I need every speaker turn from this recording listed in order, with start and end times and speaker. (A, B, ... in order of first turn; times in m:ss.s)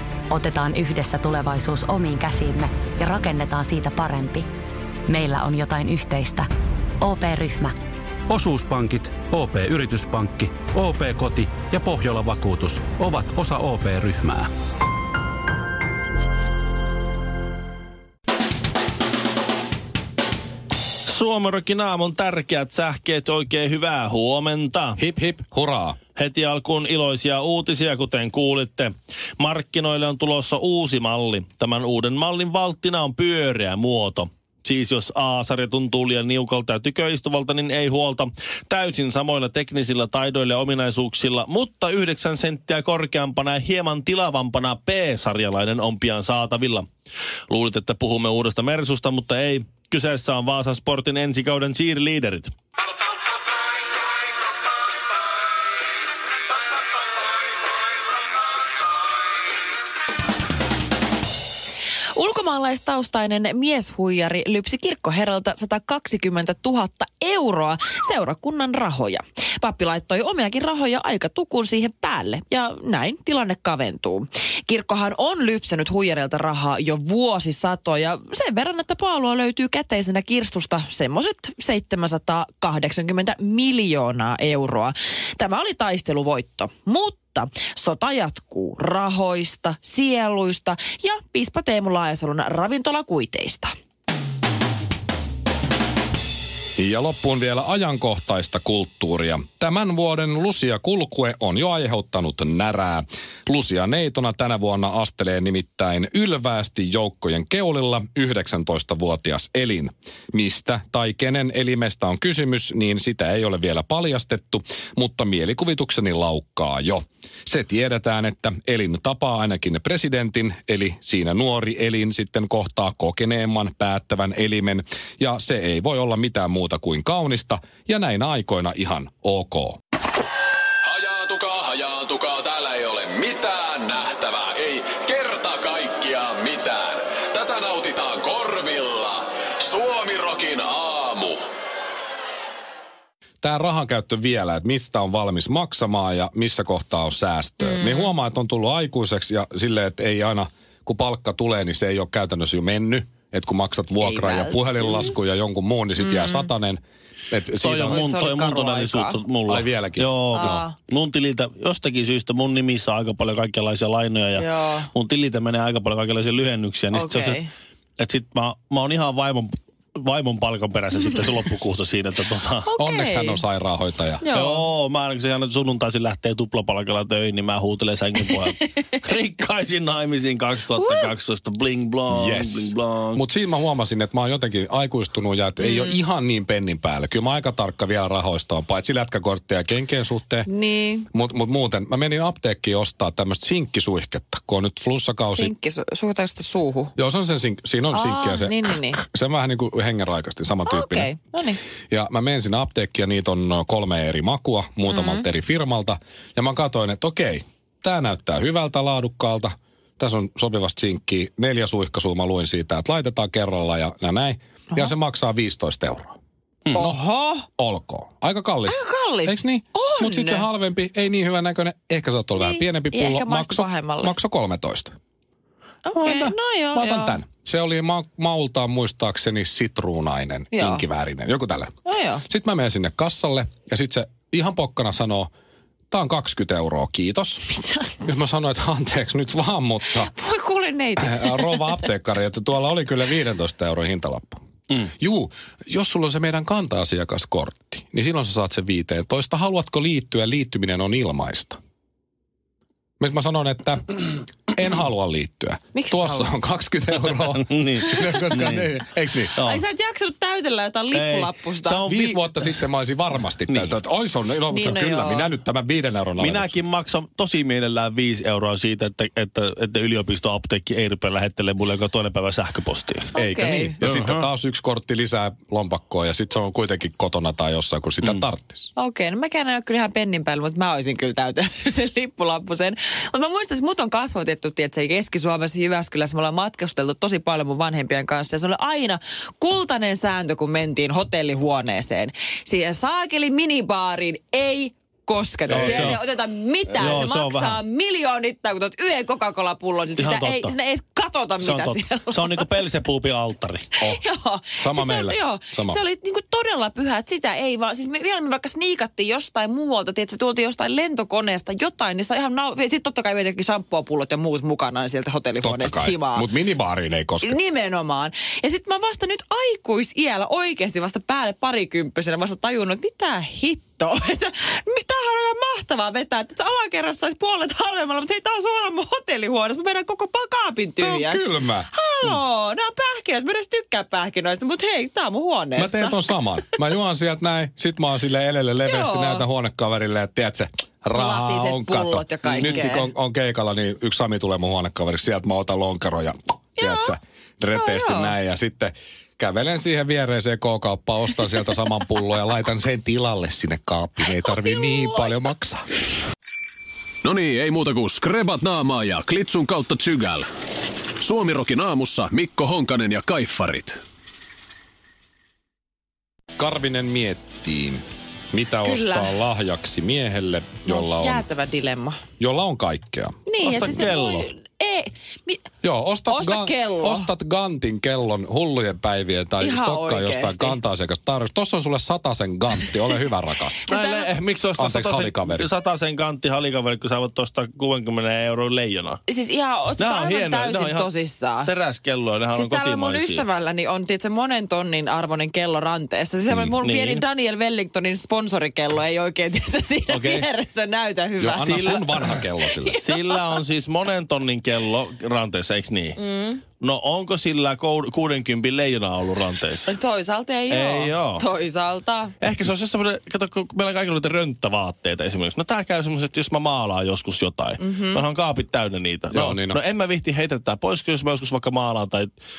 0:00.3-0:04.4 A
0:05.1-0:06.5 A
0:07.0-0:07.8 A
0:08.3-0:14.5 B
0:21.0-0:25.0 C
0:25.0-0:26.0 D
0:26.2-0:46.9 C
0:47.5-0:52.5 C
1:02.2-1:33.7 E
1:36.8-2:09.8 D
2:10.8-2:21.4 F
2:23.4-2:38.0 D
2:27.6-2:28.1 E
2:34.0-2:35.2 E
2:36.0-2:36.5 E
2:37.6-2:47.4 C
2:37.9-2:39.2 E
2:39.5-2:40.6 D
2:40.3-2:40.8 E
2:44.3-2:44.9 E
2:46.9-2:47.5 E
2:48.0-2:52.7 C
2:52.7-2:53.4 E
2:52.8-2:54.3 D
2:54.2-2:54.7 E
2:54.3-3:03.2 C
3:02.1-3:10.5 D
3:05.6-3:06.0 E
3:10.4-3:11.1 E
3:11.1-3:15.5 D
3:15.3-3:16.9 E
3:17.0-3:21.1 D
3:17.9-3:19.0 E
3:20.6-3:21.6 E
3:21.9-3:36.1 D
3:24.9-3:25.2 E
3:36.7-3:37.5 E
3:36.7-3:37.0 D
3:37.6-3:44.9 D
3:38.6-3:40.5 E
3:42.3-3:44.2 E
3:45.8-3:47.2 E
3:45.9-3:51.7 D
3:50.5-3:50.8 E
3:51.8-3:52.2 E
3:52.2-3:55.3 D
3:55.9-3:57.4 D
3:57.5-3:58.0 E
3:58.0-4:00.1 D
3:59.9-4:01.8 E
4:01.0-4:11.6 D
4:13.0-4:19.4 D
4:15.7-4:16.3 E
4:17.3-4:18.7 C
4:17.9-4:18.2 E
4:19.4-4:19.6 C
4:19.4-4:21.8 E
4:20.9-4:22.6 C
4:21.8-4:26.6 D
4:23.5-4:23.8 C
4:24.5-4:25.3 E
4:26.2-4:33.0 C
4:33.1-4:33.8 E
4:33.1-4:38.7 D
4:33.8-4:34.2 C
4:38.8-5:02.5 E
4:55.5-4:56.0 C
4:55.5-4:56.0 D
4:56.7-4:57.6 C
5:00.0-5:00.5 C
5:01.4-5:03.7 C
5:03.8-5:16.3 E
5:04.6-5:05.8 D
5:15.4-5:17.4 D
5:17.2-5:36.2 E
5:30.8-5:31.7 D
5:35.5-5:55.7 D
5:38.6-5:39.2 E
5:40.9-5:42.9 E
5:46.6-5:47.0 E
5:47.5-5:48.2 E
5:54.6-5:55.0 E
5:57.0-6:00.2 F
6:01.0-6:03.8 F
6:06.4-6:11.2 D
6:08.6-6:09.2 E
6:10.7-6:12.0 E
6:12.2-6:13.1 D
6:13.2-6:15.5 E
6:13.4-6:14.3 C
6:15.6-6:23.6 D
6:16.1-6:17.1 E
6:19.4-6:20.6 E
6:23.6-6:24.1 E
6:23.7-6:29.0 C
6:24.6-6:25.5 D
6:29.1-6:31.5 E
6:29.8-6:30.9 C
6:31.4-6:33.2 C
6:32.3-6:43.2 E
6:36.6-6:37.0 C
6:39.9-6:40.3 C
6:41.2-6:42.8 D
6:41.4-6:41.9 C
6:42.8-6:46.0 C
6:46.0-6:46.4 E
6:46.6-6:49.7 C
6:49.6-6:52.1 E
6:50.5-6:51.2 C
6:52.2-7:02.1 C
6:57.6-6:58.0 E
6:59.1-6:59.6 D